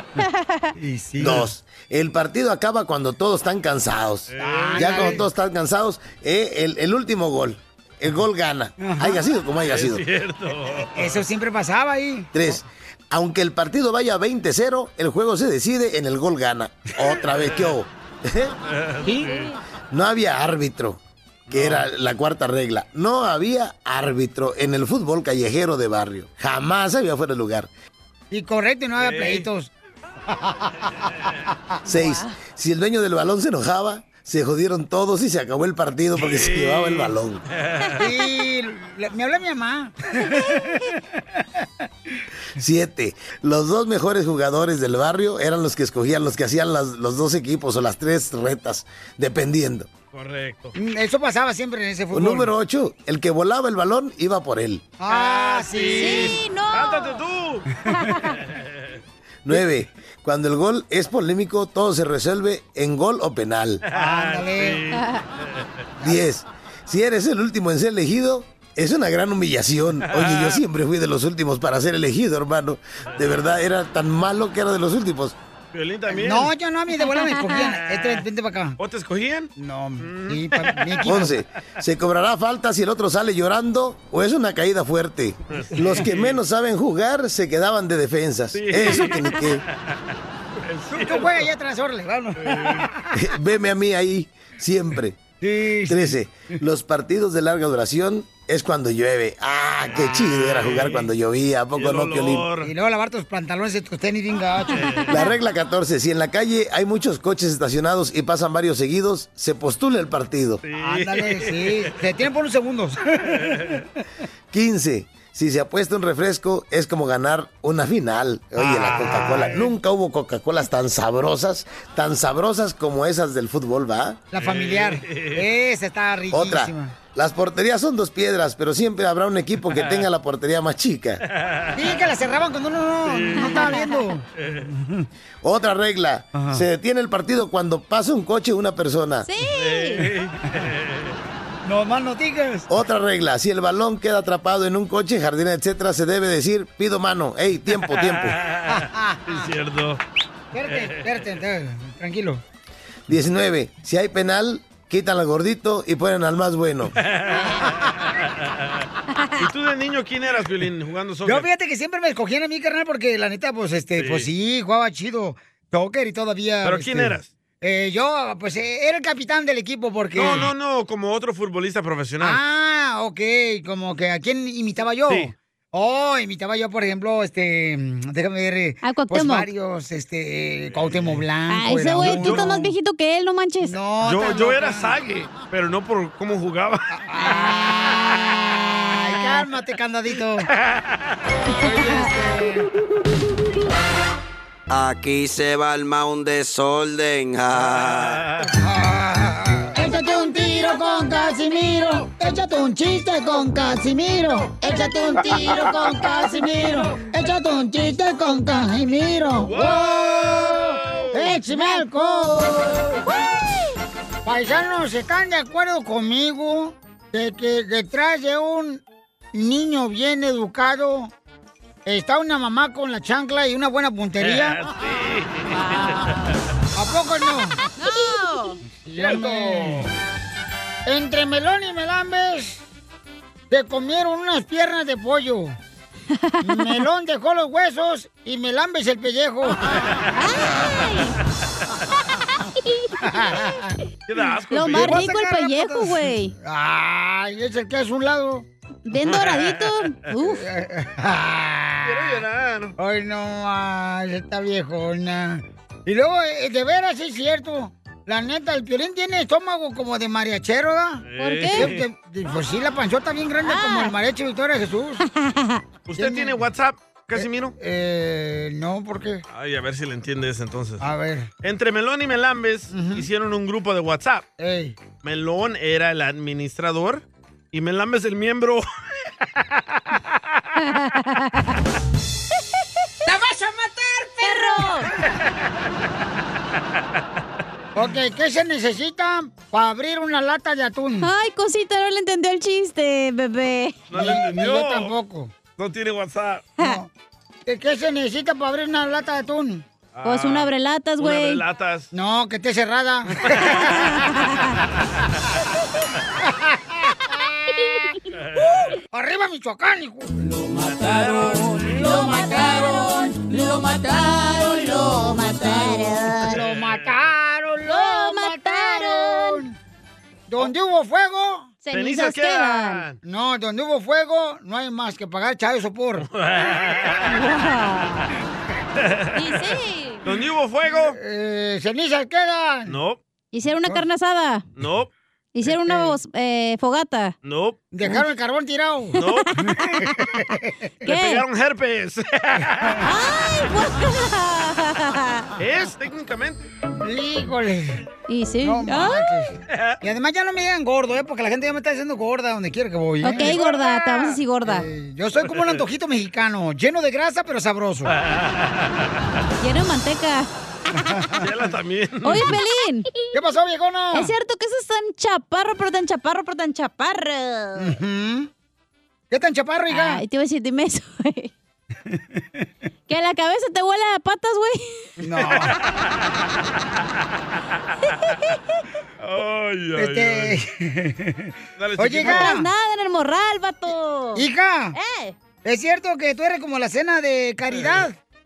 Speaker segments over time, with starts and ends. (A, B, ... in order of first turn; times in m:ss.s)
0:00.2-0:00.7 A
0:00.8-0:01.5 B
0:01.2-0:10.0 C
0:04.3-0:05.3 D
0:04.4-0:05.3 B
0:08.8-0:09.2 B
0:09.6-0:11.2 D
0:10.9-0:12.5 B
0:12.3-0:18.5 C
0:17.3-0:17.8 D
0:18.7-0:19.5 D
0:19.0-0:19.3 B
0:19.9-0:27.7 C
0:21.5-0:21.9 D
0:28.3-0:29.7 B
0:29.0-0:29.5 D
0:30.3-0:31.1 B
0:31.9-0:37.4 C
0:31.9-0:32.3 A
0:36.2-0:38.0 D
0:38.0-0:41.4 B
0:42.6-0:49.9 C
0:50.1-0:50.7 D
0:50.8-0:52.5 B
0:52.1-0:54.9 C
0:55.0-0:56.4 B
0:55.1-0:57.7 D
0:55.9-0:57.2 A
0:58.0-0:58.2 A
0:58.3-0:59.0 D
0:59.4-1:03.8 C
1:03.9-1:05.7 D
1:03.9-1:04.8 B
1:04.9-1:05.2 A
1:06.0-1:15.4 C
1:10.1-1:10.6 D
1:15.7-1:16.5 D
1:16.1-1:18.8 B
1:17.0-1:17.7 A
1:18.8-1:21.3 D
1:19.6-1:21.4 B
1:21.0-1:29.6 C
1:25.5-1:26.4 D
1:28.5-1:30.0 D
1:30.6-1:31.5 D
1:30.9-1:33.0 B
1:32.4-1:32.9 D
1:33.2-1:35.2 C
1:35.4-1:36.2 B
1:35.9-1:42.5 C
1:39.9-1:41.1 D
1:41.7-1:42.7 D
1:42.6-1:45.0 B
1:44.7-1:45.1 D
1:45.1-1:50.6 C
1:50.6-1:51.9 D
1:50.7-1:53.8 B
1:54.5-2:04.2 C
1:58.6-1:59.8 B
1:59.0-1:59.4 D
2:04.3-2:07.0 B
2:04.4-2:05.4 D
2:06.3-2:11.2 C
2:09.7-2:10.1 D
2:11.3-2:12.0 D
2:11.8-2:15.1 B
2:13.0-2:13.8 D
2:13.4-2:14.0 A
2:14.4-2:14.7 D
2:15.4-2:19.3 C
2:16.3-2:16.6 B
2:19.2-2:20.1 A
2:19.4-2:21.2 D
2:21.6-2:22.7 B
2:22.7-2:28.4 C
2:27.7-2:30.0 D
2:28.7-2:29.5 B
2:30.5-2:32.4 B
2:30.6-2:31.3 D
2:33.1-2:37.0 C
2:37.0-2:38.8 D
2:37.3-2:37.7 A
2:39.4-2:41.5 D
2:41.3-2:50.5 B
2:44.0-2:44.3 D
2:46.6-2:47.3 D
2:50.2-2:52.4 D
2:52.2-3:02.7 B
2:55.1-2:55.3 D
2:58.8-2:59.5 A
3:00.7-3:01.2 D
3:01.5-3:03.8 A
3:02.0-3:02.6 D
3:03.6-3:04.9 B
3:04.0-3:07.0 D
3:07.0-3:10.5 B
3:09.1-3:09.4 A
3:10.6-3:11.0 D
3:11.4-3:12.7 B
3:14.7-3:18.2 E
3:17.5-3:18.5 D
3:18.6-3:33.0 B
3:29.4-3:31.3 D
3:31.3-3:32.4 A
3:34.2-3:38.8 B
3:39.3-3:41.1 B
3:41.9-3:44.6 B
3:44.2-3:46.1 D
3:45.5-3:46.3 A
3:46.8-3:47.7 B
3:47.8-3:48.6 A
3:48.8-3:49.9 B
3:49.0-3:49.8 D
3:50.9-3:52.6 B
3:53.5-3:55.6 B
3:56.2-3:56.7 A
3:56.4-4:00.0 B
4:00.1-4:01.2 A
4:03.0-4:03.8 B
4:04.1-4:05.0 D
4:04.5-4:06.3 A
4:04.7-4:08.5 B
4:08.9-4:10.4 A
4:09.0-4:09.8 D
4:10.2-4:12.2 B
4:11.8-4:12.8 D
4:12.8-4:25.0 B
4:21.1-4:21.9 D
4:21.2-4:21.7 A
4:23.4-4:24.0 A
4:25.2-4:25.6 A
4:25.9-4:27.6 D
4:26.0-4:26.4 B
4:27.2-4:29.2 B
4:29.3-4:30.8 D
4:30.8-4:31.3 B
4:31.4-4:34.3 D
4:32.7-4:33.1 B
4:34.4-4:34.8 B
4:35.0-4:38.6 D
4:40.7-4:41.4 A
4:43.1-4:44.6 B
4:44.2-4:44.9 A
4:47.8-4:51.1 B
4:51.0-4:53.8 A
4:53.9-4:55.0 D
4:53.9-4:55.3 B
4:55.6-4:56.5 D
4:56.6-4:56.9 B
4:57.5-4:59.6 B
4:59.9-5:01.9 D
5:00.0-5:01.4 A
5:01.9-5:04.2 B
5:03.7-5:04.6 A
5:06.2-5:07.9 B
5:08.2-5:08.7 D
5:08.9-5:10.4 B
5:10.5-5:11.8 D
5:10.9-5:16.4 A
5:11.8-5:12.8 B
5:16.2-5:19.6 B
5:16.3-5:16.9 D
5:17.7-5:19.4 A
5:20.3-5:21.5 B
5:21.6-5:22.8 A
5:21.7-5:23.0 D
5:23.0-5:26.1 B
5:26.0-5:27.2 D
5:27.1-5:28.1 A
5:28.8-5:29.2 D
5:29.2-5:30.0 A
5:30.0-5:31.0 D
5:30.7-5:32.8 B
5:32.7-5:33.0 D
5:33.3-5:34.4 A
5:34.6-5:34.9 D
5:35.4-5:37.1 A
5:35.5-5:36.0 B
5:37.2-5:37.6 D
5:37.7-5:39.0 B
5:39.0-5:39.3 D
5:39.2-5:39.6 A
5:39.5-5:40.7 B
5:40.8-5:42.8 D
5:40.9-5:41.2 A
5:42.8-5:45.3 A
5:45.4-5:46.5 D
5:46.8-5:47.9 B
5:48.1-5:49.1 A
5:48.4-5:53.4 B
5:53.0-5:54.7 A
5:53.2-5:54.2 D
5:54.4-5:57.9 B
5:55.2-5:55.6 D
5:58.0-5:58.8 D
5:59.4-6:00.3 A
6:00.8-6:01.3 B
6:01.2-6:02.3 D
6:02.0-6:02.9 A
6:03.1-6:04.1 B
6:03.9-6:07.7 A
6:07.6-6:08.3 B
6:09.1-6:10.0 B
6:09.7-6:11.3 A
6:12.9-6:14.7 A
6:15.0-6:15.6 B
6:15.2-6:15.6 D
6:19.0-6:20.4 D
6:19.8-6:22.5 B
6:21.6-6:22.4 D
6:22.0-6:25.2 A
6:24.2-6:24.8 B
6:25.4-6:28.0 B
6:27.5-6:27.9 D